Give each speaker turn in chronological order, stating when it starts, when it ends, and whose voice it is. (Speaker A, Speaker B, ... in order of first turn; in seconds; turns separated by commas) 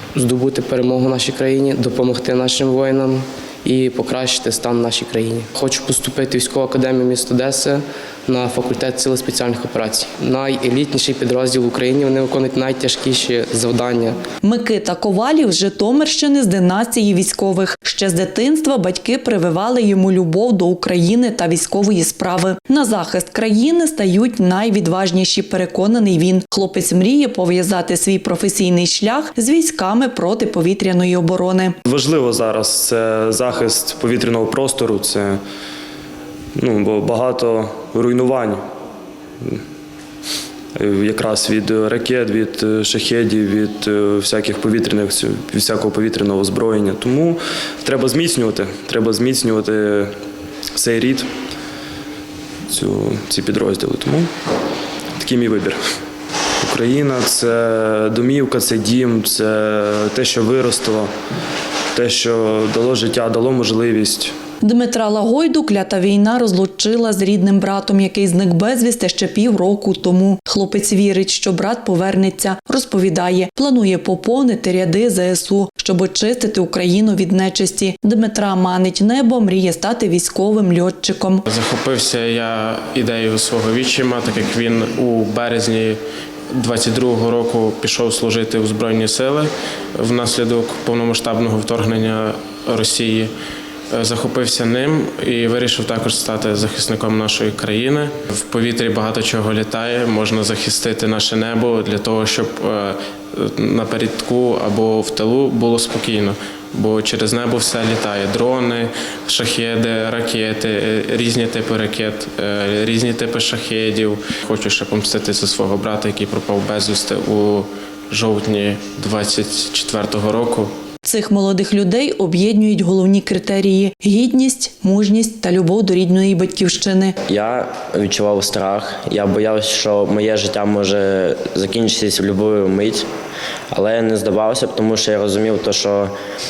Speaker A: 0.1-14.2, Speaker B: 14.4-31.8, Speaker C: 31.9-35.4, Speaker C: 36.5-38.6, Speaker C: 40.7-50.1, Speaker C: 50.7-51.3, Speaker C: 52.7-54.3, Speaker C: 55.2-55.9, Speaker C: 56.6-61.1, Speaker C: 61.9-64.3, Speaker B: 64.6-81.4, Speaker D: 81.4-86.0, Speaker D: 86.5-93.3, Speaker D: 93.9-120.7, Speaker B: 121.0-127.1, Speaker E: 127.3-133.1, Speaker E: 133.7-136.1